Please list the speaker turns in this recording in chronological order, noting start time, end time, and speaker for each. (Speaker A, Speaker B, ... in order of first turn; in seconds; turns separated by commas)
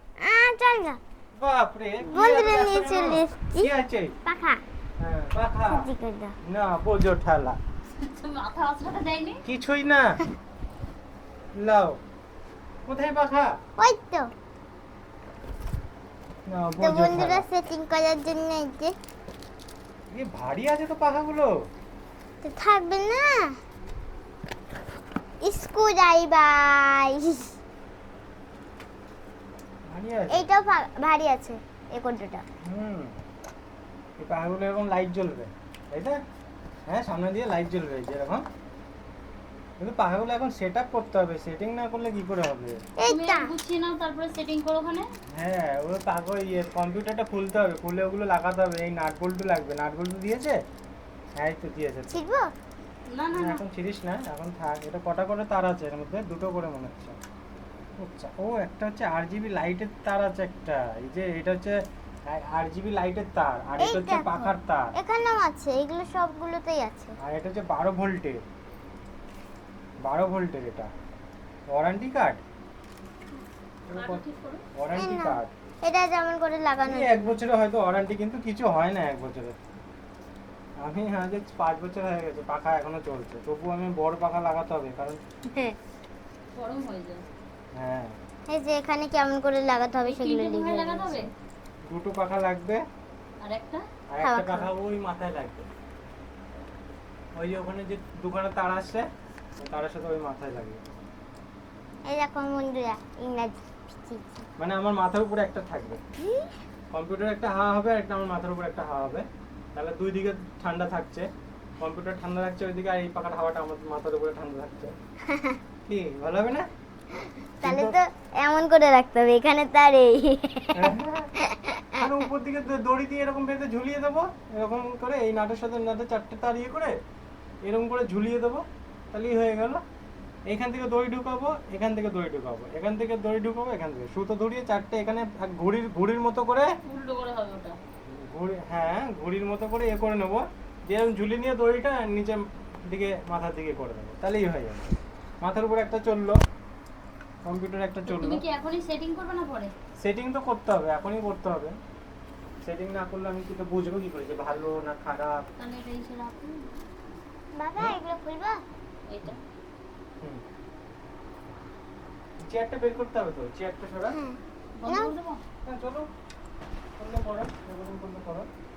Speaker A: 0.2-1.0, Speaker B: 1.4-4.2, Speaker A: 2.0-3.7, Speaker A: 4.2-4.6, Speaker B: 5.0-5.9, Speaker A: 5.7-6.3, Speaker B: 6.4-7.6, Speaker C: 8.0-9.4, Speaker B: 9.4-10.2, Speaker B: 11.6-12.0, Speaker B: 12.8-13.5, Speaker A: 13.8-14.3, Speaker B: 16.5-17.4, Speaker A: 16.8-18.9, Speaker B: 20.1-21.5, Speaker A: 22.4-23.6, Speaker A: 25.4-27.5, Speaker B: 29.9-30.5, Speaker A: 30.3-32.4, Speaker B: 32.6-33.1, Speaker B: 34.2-36.2, Speaker B: 36.9-38.4, Speaker B: 39.8-42.8, Speaker A: 43.0-43.5, Speaker C: 43.0-45.1, Speaker B: 45.3-50.6, Speaker B: 51.4-52.1, Speaker A: 52.1-52.5, Speaker C: 53.1-53.6, Speaker B: 53.3-57.2, Speaker B: 58.0-64.9, Speaker A: 63.8-67.1, Speaker B: 67.2-68.4, Speaker B: 70.0-70.9, Speaker B: 71.7-72.4, Speaker B: 73.9-74.2, Speaker C: 73.9-74.6, Speaker B: 74.7-75.5, Speaker A: 75.0-77.2, Speaker B: 76.8-79.6, Speaker B: 80.8-85.2, Speaker A: 85.5-85.8, Speaker C: 86.5-87.3, Speaker B: 87.7-88.1, Speaker A: 88.5-91.2, Speaker C: 90.0-91.3, Speaker B: 91.8-92.8, Speaker C: 93.4-93.8, Speaker B: 94.1-95.7, Speaker A: 94.2-94.7, Speaker B: 97.3-99.0, Speaker B: 99.6-100.8, Speaker A: 102.0-104.4, Speaker B: 104.6-106.0, Speaker B: 106.9-111.3, Speaker B: 111.8-114.9, Speaker A: 115.3-115.6, Speaker B: 115.9-116.7, Speaker A: 117.6-122.0, Speaker B: 117.6-118.0, Speaker B: 120.7-121.3, Speaker B: 122.0-127.0, Speaker B: 127.6-129.8, Speaker B: 130.5-136.7, Speaker C: 136.8-137.8, Speaker B: 138.1-144.9, Speaker B: 145.4-146.4, Speaker B: 147.4-148.4, Speaker C: 148.0-149.7, Speaker B: 150.0-151.8, Speaker B: 152.6-155.4, Speaker C: 155.6-156.8, Speaker A: 157.5-158.6, Speaker C: 159.1-159.4, Speaker B: 162.4-164.2, Speaker A: 164.1-165.1, Speaker C: 164.8-165.4, Speaker B: 165.6-166.1, Speaker B: 167.0-168.5